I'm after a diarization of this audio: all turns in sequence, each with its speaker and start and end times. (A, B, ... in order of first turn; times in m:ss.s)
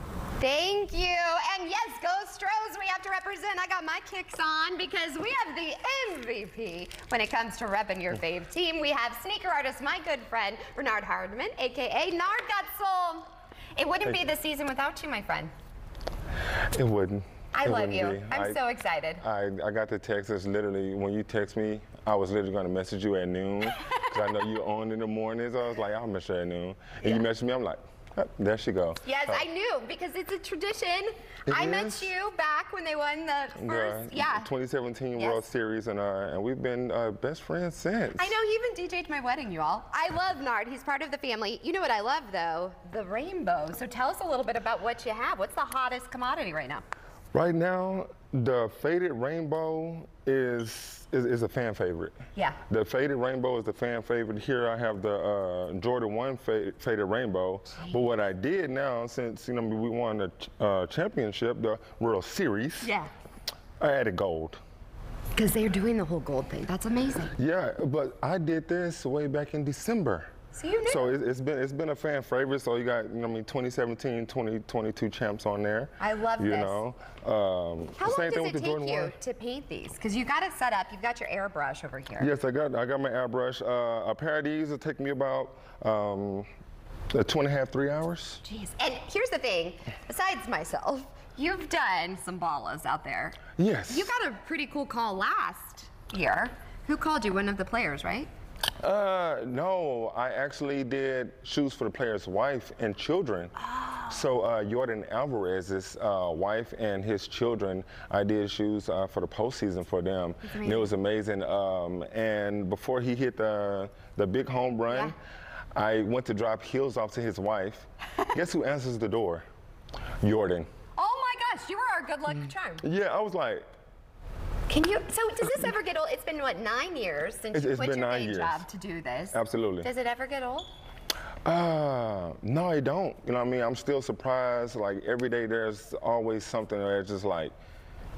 0:00.4-0:15.5 A
0:16.7-0:18.6 B
0:17.5-0:19.2 A
0:19.2-0:29.4 B
0:29.0-0:34.5 A
0:31.5-0:32.1 B
0:33.5-0:38.3 B
0:35.2-0:35.4 A
0:38.2-0:46.8 A
0:47.3-0:52.1 B
0:52.7-1:02.9 B
1:02.8-1:03.1 A
1:03.8-1:04.6 B
1:05.3-1:07.3 A
1:07.4-1:10.3 B
1:10.5-1:11.1 A
1:10.9-1:19.1 B
1:16.0-1:16.8 A
1:18.0-1:22.3 A
1:22.2-1:26.5 B
1:27.1-1:28.4 B
1:28.4-1:38.3 A
1:33.6-1:34.1 B
1:38.8-1:43.5 B
1:44.1-1:55.1 B
1:50.4-1:50.9 A
1:55.7-1:59.4 B
2:00.2-2:00.7 B
2:01.0-2:02.8 A
2:02.8-2:03.7 B
2:04.7-2:10.7 A
2:07.5-2:08.6 B
2:09.3-2:09.9 B
2:11.4-2:17.5 B